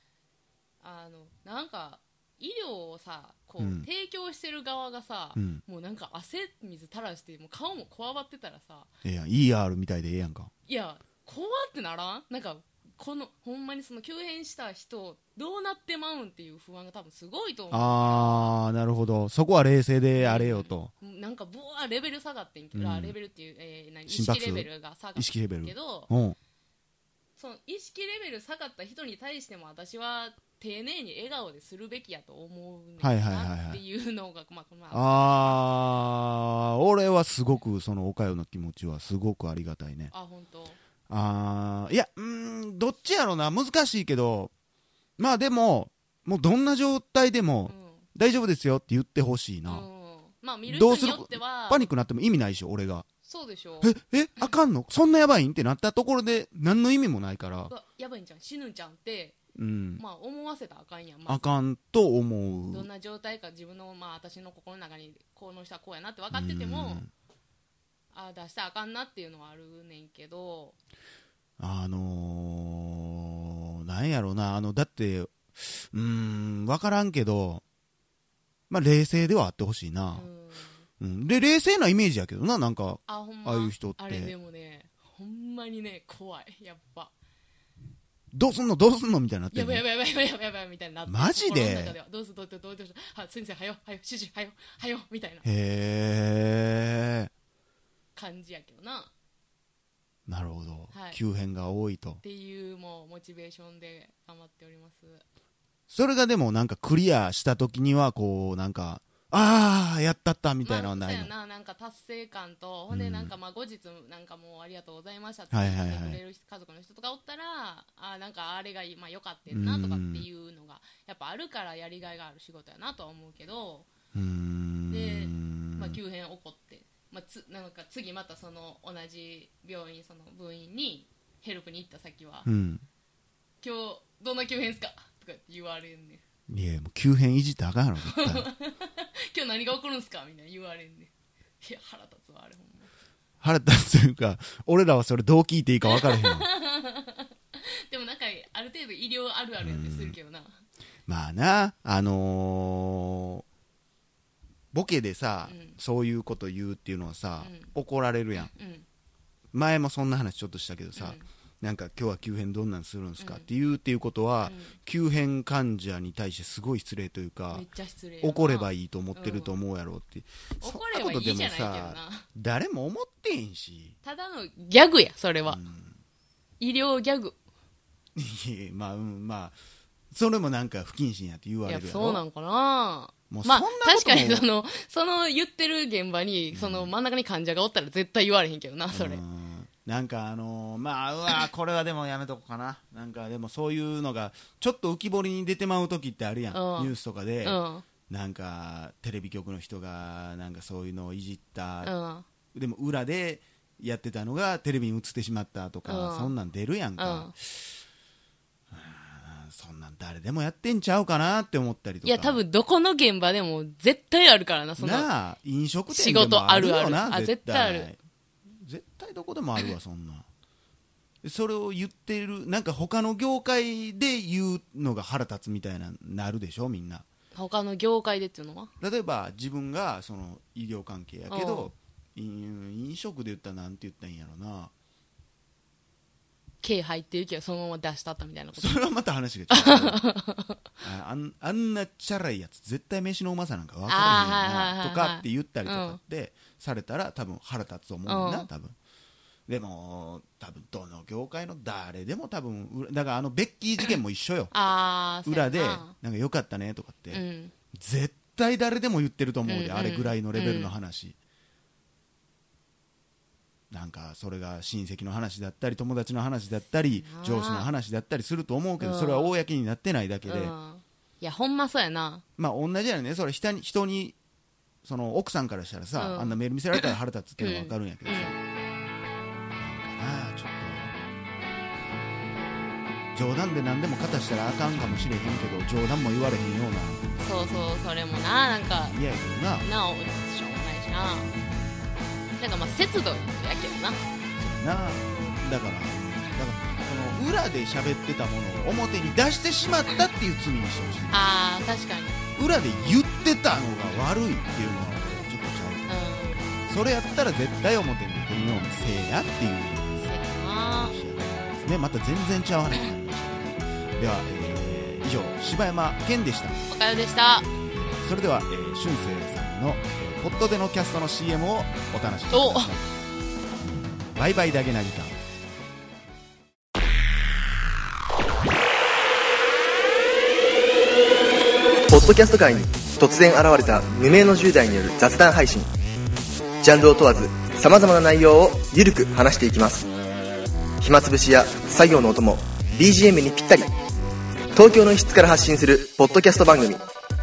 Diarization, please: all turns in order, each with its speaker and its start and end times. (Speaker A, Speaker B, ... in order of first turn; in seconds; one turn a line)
Speaker A: 0.8-8.9
Speaker B: 3.6-3.9
Speaker B: 5.3-5.6
Speaker B: 9.0-10.5
Speaker A: 10.7-18.6
Speaker B: 17.7-20.9
Speaker A: 20.1-26.1
Speaker B: 22.8-23.1
Speaker B: 24.1-26.4
Speaker A: 27.4-35.6
Speaker B: 33.0-33.8
Speaker B: 34.9-40.1
Speaker A: 40.1-40.8
Speaker B: 41.1-44.5
Speaker B: 45.2-49.9
Speaker A: 47.7-48.0
Speaker A: 49.6-51.9
Speaker B: 50.7-53.0
Speaker A: 53.2-54.5
Speaker B: 53.8-57.7
Speaker A: 57.7-59.4
Speaker B: 59.5-60.0
Speaker A: 60.0-61.4
Speaker B: 61.3-62.9
Speaker A: 62.7-67.0
Speaker B: 66.3-67.1
Speaker A: 68.1-70.8
Speaker B: 71.6-77.6
Speaker B: 78.7-80.3
Speaker A: 80.1-80.8
Speaker B: 81.0-84.3
Speaker A: 83.1-87.1
Speaker B: 88.3-89.8
Speaker A: 89.5-95.5
Speaker B: 91.1-92.0
Speaker B: 95.4-97.3
Speaker A: 98.1-99.1
Speaker B: 100.3-102.2
Speaker A: 100.9-101.2
Speaker A: 102.2-105.2
Speaker B: 105.9-111.3
Speaker A: 110.6-123.9
Speaker B: 112.9-113.3
Speaker B: 115.5-116.2
Speaker B: 119.5-120.3
Speaker B: 124.1-126.0
Speaker A: 124.9-132.5
Speaker B: 132.4-132.8
Speaker A: 133.6-136.2
Speaker B: 136.5-138.5
Speaker A: 138.1-142.9
Speaker B: 143.4-146.5
Speaker A: 145.8-150.5
Speaker B: 149.6-150.2
Speaker B: 151.1-153.4
Speaker B: 154.7-158.5
Speaker A: 155.4-155.8
Speaker A: 157.4-157.7
Speaker A: 158.4-158.8
Speaker B: 159.5-167.7
Speaker A: 160.9-161.3
Speaker A: 163.2-163.5
Speaker A: 164.4-164.8
Speaker A: 167.5-169.5
Speaker B: 168.2-173.9
Speaker A: 170.6-172.2
Speaker A: 174.0-175.6
Speaker B: 175.4-176.0
Speaker A: 176.6-177.4
Speaker B: 178.1-179.6
Speaker B: 180.1-182.2
Speaker A: 181.7-189.2
Speaker B: 183.3-184.4
Speaker B: 186.5-186.9
Speaker B: 188.9-201.9
Speaker A: 196.5-197.8
Speaker A: 201.8-202.2
Speaker B: 202.5-207.7
Speaker A: 205.8-206.3
Speaker A: 207.0-207.3
Speaker B: 208.7-212.4
Speaker A: 212.0-215.1
Speaker B: 214.8-218.0
Speaker A: 215.9-217.9
Speaker B: 218.5-220.2
Speaker B: 221.2-227.0
Speaker A: 227.3-228.7
Speaker B: 228.8-234.7
Speaker A: 231.3-231.7
Speaker A: 236.6-238.8
Speaker B: 238.5-240.0
Speaker A: 239.5-240.6
Speaker B: 240.8-248.8
Speaker A: 243.8-246.0
Speaker A: 248.1-248.5
Speaker B: 249.5-254.5
Speaker A: 254.5-255.9
Speaker B: 255.2-257.2
Speaker A: 257.1-257.5
Speaker B: 257.7-261.1
Speaker A: 259.4-260.7
Speaker B: 263.7-270.5
Speaker A: 267.0-267.7
Speaker A: 268.8-269.3
Speaker A: 270.3-272.2
Speaker B: 272.4-274.2
Speaker B: 274.8-278.3
Speaker A: 276.0-278.4
Speaker B: 279.6-280.9
Speaker B: 283.1-287.2
Speaker A: 287.2-289.0
Speaker B: 288.8-289.7
Speaker A: 289.6-291.3
Speaker A: 292.4-294.0
Speaker B: 294.4-301.2
Speaker A: 301.1-302.2
Speaker B: 302.4-305.9
Speaker A: 305.9-306.5
Speaker B: 306.6-316.7
Speaker A: 310.0-310.9
Speaker A: 316.7-317.5
Speaker B: 317.5-322.9
Speaker A: 322.3-322.7
Speaker B: 323.6-325.1
Speaker C: 331.9-335.7
Speaker C: 336.6-339.9
Speaker C: 340.8-343.7
Speaker C: 344.5-346.8